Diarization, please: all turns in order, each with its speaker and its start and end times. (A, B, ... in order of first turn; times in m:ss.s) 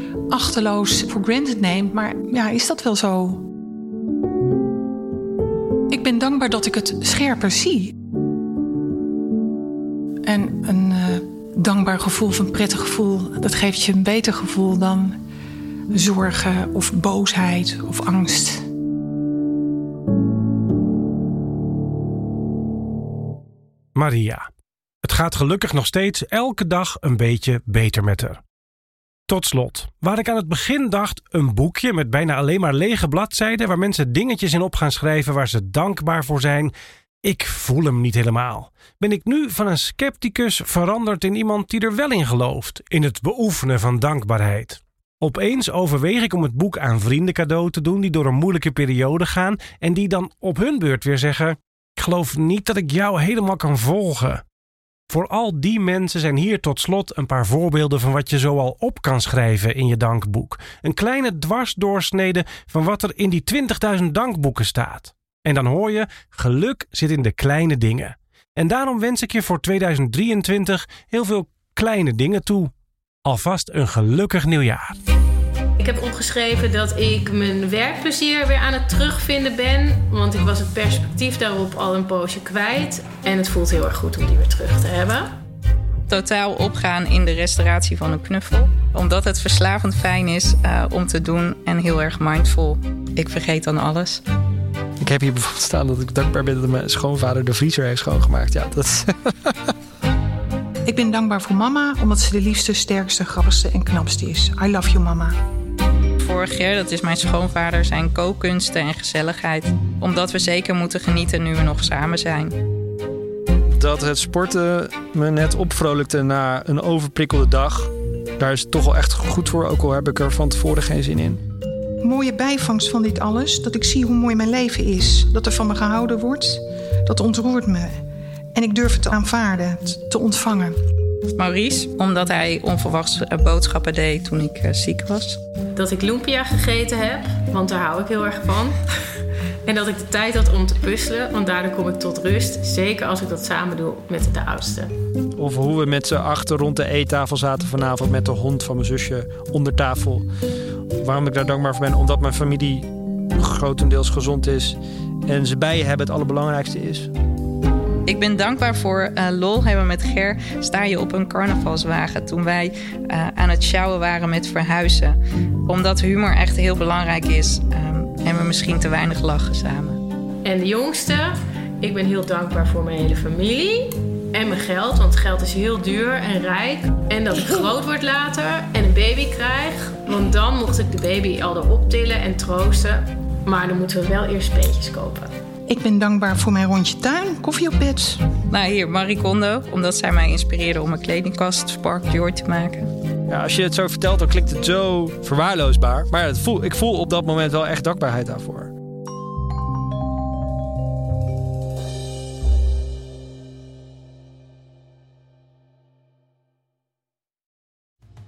0:00.3-0:03.5 A
0:05.9-0:08.0 A
0:10.3-0:15.2 A
0:15.9-0:18.7 A
0:24.0-0:24.5 B
0:25.0-0:28.4 B
0:29.3-0:36.7 B
0:37.2-0:54.4 B
0:55.1-1:12.7 B
1:13.2-1:15.0 B
1:15.8-1:25.3 C
1:26.1-1:34.2 D
1:35.0-1:39.6 E
1:40.8-1:45.4 A
1:46.2-1:52.6 D
1:53.8-2:01.4 E
2:02.0-2:08.0 A
2:08.6-2:10.8 A
2:11.4-2:15.4 D
2:15.8-2:18.8 C
2:19.7-2:24.9 C
2:25.4-2:30.3 E
2:31.0-2:37.1 E
2:38.1-2:50.0 D
2:50.4-3:05.3 C
3:05.7-3:08.3 A
3:08.5-3:12.9 D
3:13.3-3:18.7 E